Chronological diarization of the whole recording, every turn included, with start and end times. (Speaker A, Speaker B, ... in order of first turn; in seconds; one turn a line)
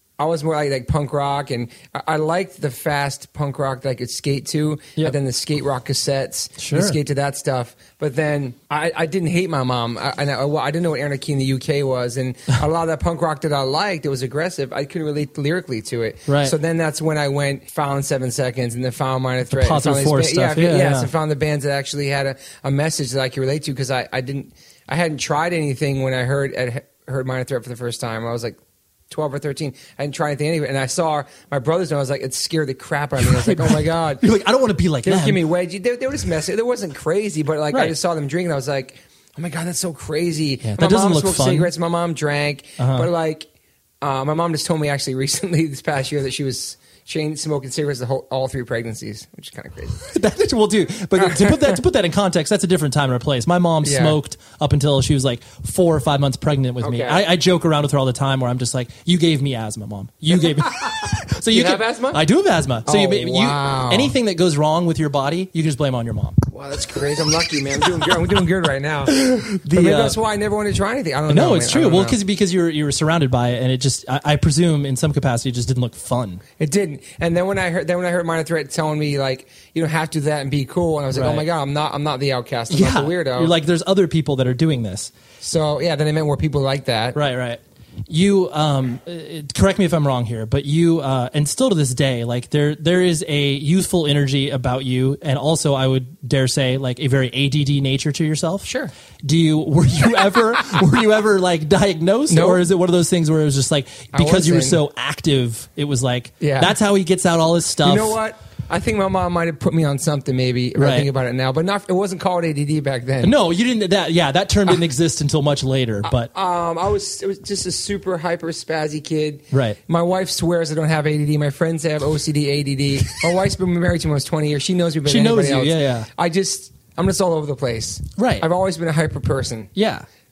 Speaker A: 0.2-28.6
Speaker B: 6.6-7.0
Speaker B: 16.3-16.6
Speaker B: 19.5-21.1
Speaker A: 29.1-34.3
Speaker B: 33.2-35.4
Speaker A: 35.0-43.5
Speaker B: 40.6-41.7
Speaker B: 42.8-43.1
Speaker A: 44.0-50.0
Speaker B: 50.0-66.4
Speaker A: 51.2-51.8
Speaker A: 53.8-54.2
Speaker A: 56.8-57.3
Speaker A: 60.5-62.3
Speaker A: 62.9-64.2
Speaker A: 66.5-72.2
Speaker B: 69.1-70.2
Speaker B: 71.3-76.4
Speaker A: 76.6-83.5
Speaker B: 81.1-81.5
Speaker B: 82.7-85.1
Speaker A: 85.4-87.2
Speaker B: 87.2-98.7
Speaker A: 98.7-98.9
Speaker B: 99.2-108.2
Speaker A: 102.3-102.7
Speaker A: 104.1-104.8
Speaker A: 106.4-106.8
Speaker A: 107.8-113.3
Speaker B: 110.8-111.1
Speaker B: 113.2-116.3
Speaker A: 116.0-129.7
Speaker B: 119.5-119.8
Speaker B: 125.1-126.1
Speaker B: 128.2-128.4
Speaker B: 129.8-130.1